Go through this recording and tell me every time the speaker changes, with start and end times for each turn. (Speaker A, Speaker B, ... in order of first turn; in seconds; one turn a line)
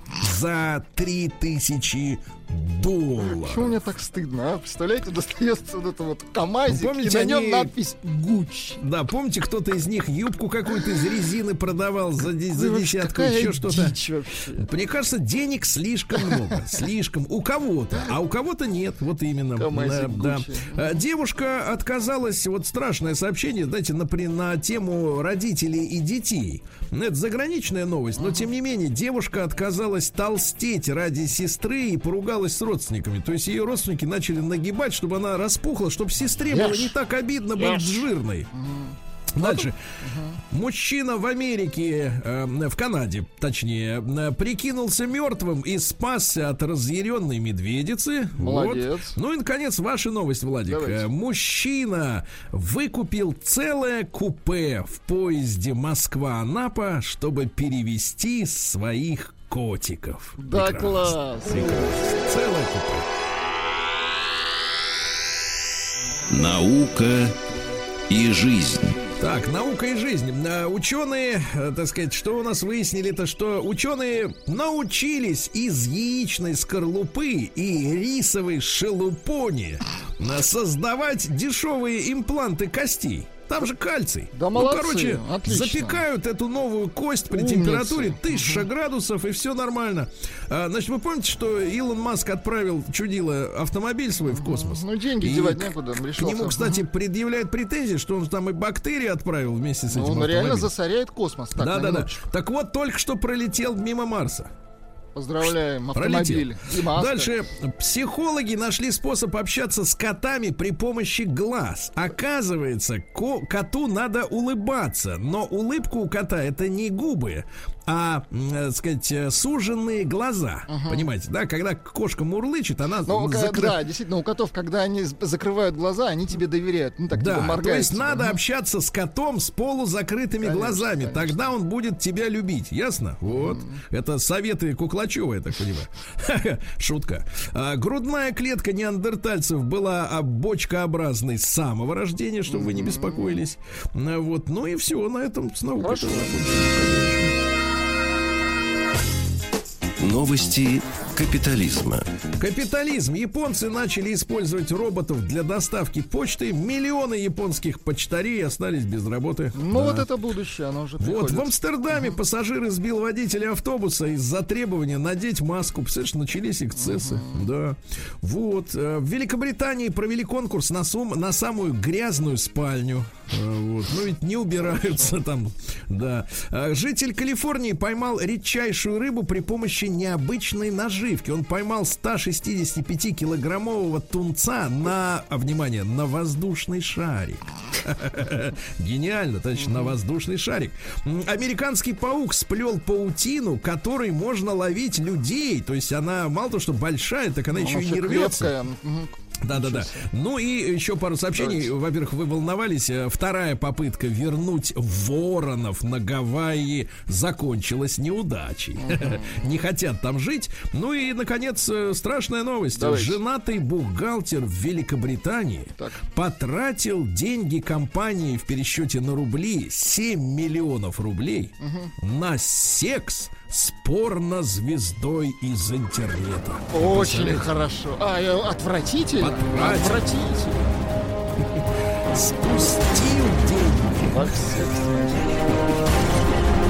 Speaker A: 0.2-3.8
Speaker B: 3.2-8.8
Speaker A: 6.7-7.7
Speaker A: 8.8-14.0
Speaker B: 12.5-14.7
Speaker A: 14.5-38.5
Speaker B: 19.6-20.8
Speaker B: 28.2-28.5
Speaker B: 36.5-36.9
Speaker B: 37.6-37.9
Speaker B: 38.5-40.4
Speaker A: 39.4-39.8
Speaker A: 40.4-63.1
Speaker B: 48.4-49.2
Speaker B: 50.7-51.1
Speaker B: 60.4-62.2
Speaker C: 66.3-67.3
Speaker C: 68.1-69.0
Speaker A: 69.2-100.7
Speaker B: 84.3-86.0
Speaker B: 87.3-88.7
Speaker B: 94.2-96.8
Speaker B: 99.9-102.2
Speaker A: 101.6-104.5
Speaker B: 105.2-107.4
Speaker A: 105.4-123.8
Speaker B: 120.7-121.0
Speaker B: 123.1-128.4
Speaker A: 127.1-147.3
Speaker B: 130.4-131.4
Speaker B: 133.3-133.8
Speaker B: 142.5-143.4
Speaker B: 145.8-146.5
Speaker C: 150.0-152.1
Speaker A: 152.4-160.1
Speaker B: 159.6-162.1
Speaker A: 161.0-198.5
Speaker B: 166.8-167.5
Speaker B: 189.6-189.9
Speaker B: 197.6-200.1
Speaker A: 199.4-227.5
Speaker B: 201.4-201.7
Speaker B: 208.8-209.4
Speaker B: 212.8-213.2
Speaker B: 221.6-221.9
Speaker B: 226.7-230.7
Speaker A: 229.2-230.1
Speaker A: 231.4-234.6
Speaker B: 234.0-235.4